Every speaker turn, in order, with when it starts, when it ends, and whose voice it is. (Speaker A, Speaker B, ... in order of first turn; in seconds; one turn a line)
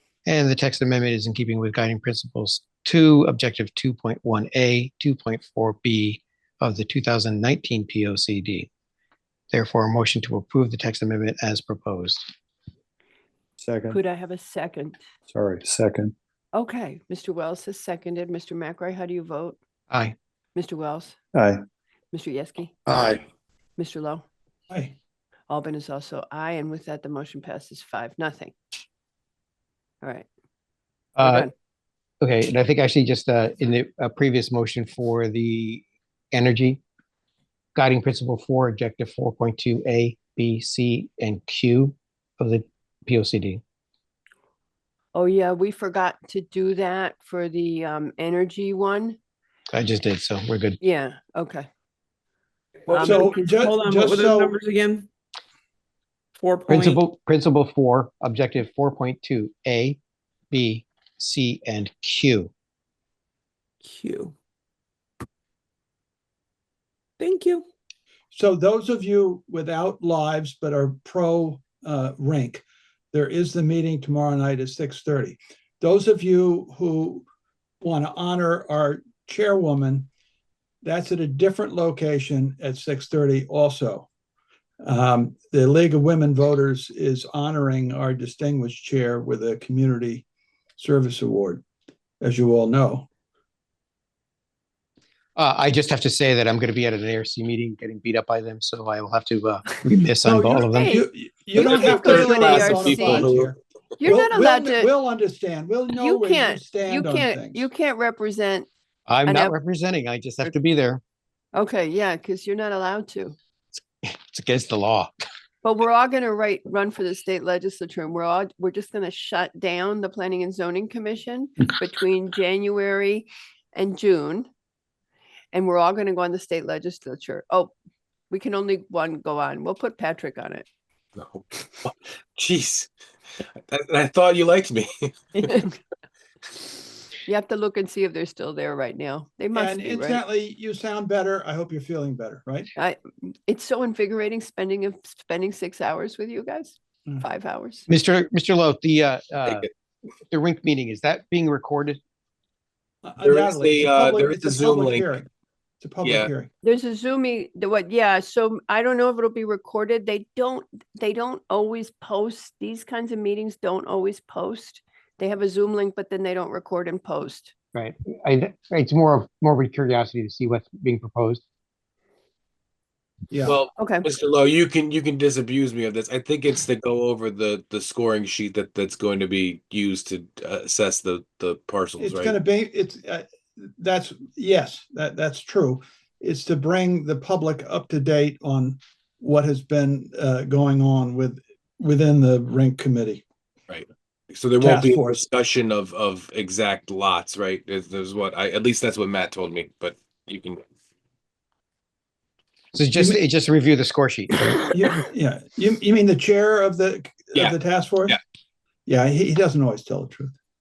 Speaker A: 0.2-8.7
Speaker A: 9.5-12.3
Speaker B: 13.6-14.0
Speaker C: 13.9-15.0
Speaker B: 15.3-16.1
Speaker C: 16.5-19.6
Speaker C: 20.6-21.2
Speaker B: 21.3-21.6
Speaker C: 22.1-22.8
Speaker B: 22.9-23.2
Speaker C: 23.8-24.2
Speaker D: 24.7-24.9
Speaker C: 25.5-28.5
Speaker C: 30.0-30.3
Speaker A: 31.2-31.5
Speaker C: 31.2-31.5
Speaker A: 32.2-36.8
Speaker A: 37.7-43.6
Speaker C: 45.1-49.2
Speaker A: 49.7-50.8
Speaker C: 50.8-51.7
Speaker E: 52.9-55.1
Speaker D: 52.9-54.6
Speaker C: 53.0-53.3
Speaker E: 56.4-57.0
Speaker A: 56.7-60.0
Speaker A: 60.5-62.5
Speaker E: 63.8-64.3
Speaker E: 67.2-67.6
Speaker D: 68.3-77.2
Speaker D: 77.8-80.1
Speaker D: 80.8-84.1
Speaker D: 84.8-90.2
Speaker D: 90.8-91.6
Speaker D: 92.2-93.1
Speaker A: 95.3-101.0
Speaker D: 100.2-107.7
Speaker C: 100.6-103.3
Speaker F: 101.6-103.5
Speaker C: 104.0-104.9
Speaker C: 105.9-108.7
Speaker A: 109.1-111.0
Speaker C: 109.2-109.5
Speaker C: 111.5-113.3
Speaker A: 114.0-115.1
Speaker C: 115.6-124.5
Speaker C: 125.5-127.7
Speaker C: 128.3-130.6
Speaker F: 131.2-132.9
Speaker F: 133.7-135.7
Speaker C: 137.2-140.2
Speaker D: 139.5-142.7
Speaker C: 142.8-147.9
Speaker A: 147.9-149.7
Speaker A: 150.3-152.0
Speaker D: 153.0-155.3
Speaker F: 153.2-155.1
Speaker D: 155.8-156.5
Speaker F: 156.0-156.3
Speaker C: 156.6-167.5
Speaker A: 167.7-171.4
Speaker D: 173.3-173.6
Speaker F: 173.4-182.3
Speaker C: 173.8-174.1
Speaker D: 182.0-193.2
Speaker F: 193.7-200.6
Speaker D: 194.6-195.2
Speaker A: 202.7-204.5
Speaker D: 202.9-203.2
Speaker D: 204.7-208.2
Speaker D: 208.8-210.3